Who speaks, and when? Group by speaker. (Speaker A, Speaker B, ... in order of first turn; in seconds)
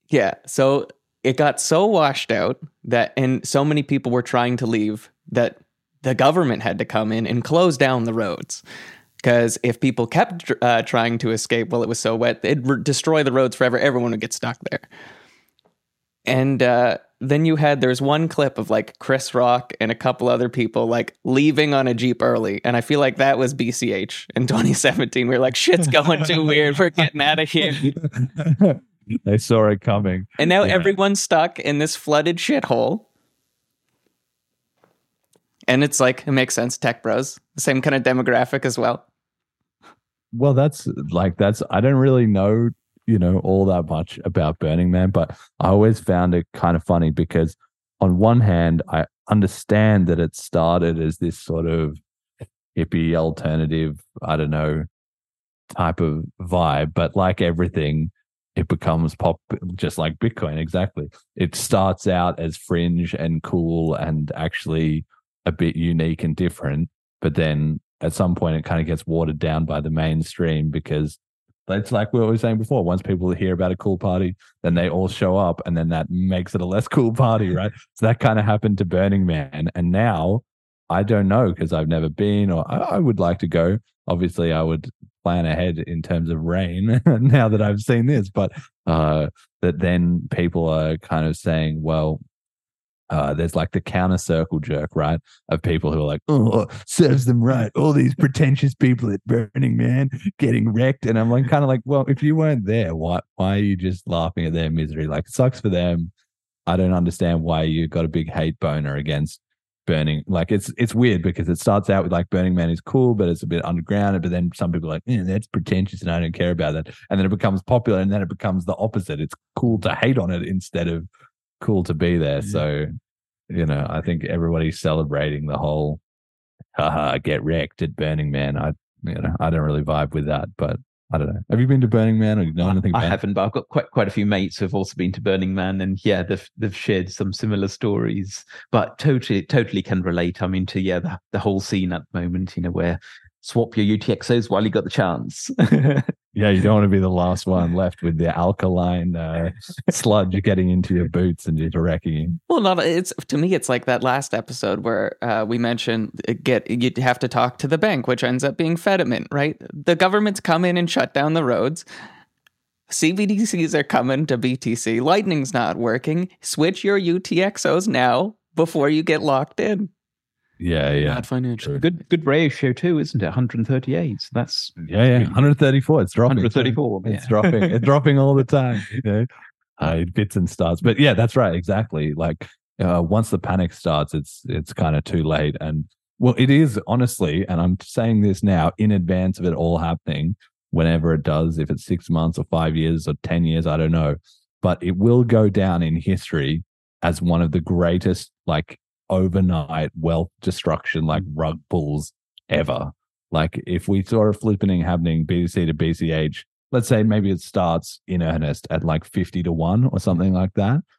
Speaker A: 0.1-8.6, 9.2-14.9, 16.3-28.0, 30.4-33.1, 35.7-39.0, 152.5-161.8, 162.9-169.9, 171.0-171.8
Speaker B: 28.4-31.0, 40.3-52.0, 52.8-54.9, 55.7-92.2, 93.1-106.1, 106.7-121.1, 121.6-122.9, 123.5-126.0, 126.8-133.2, 146.3-152.4, 170.6-171.8, 174.8-210.8
Speaker C: 132.6-146.1, 171.6-175.3, 176.3-177.7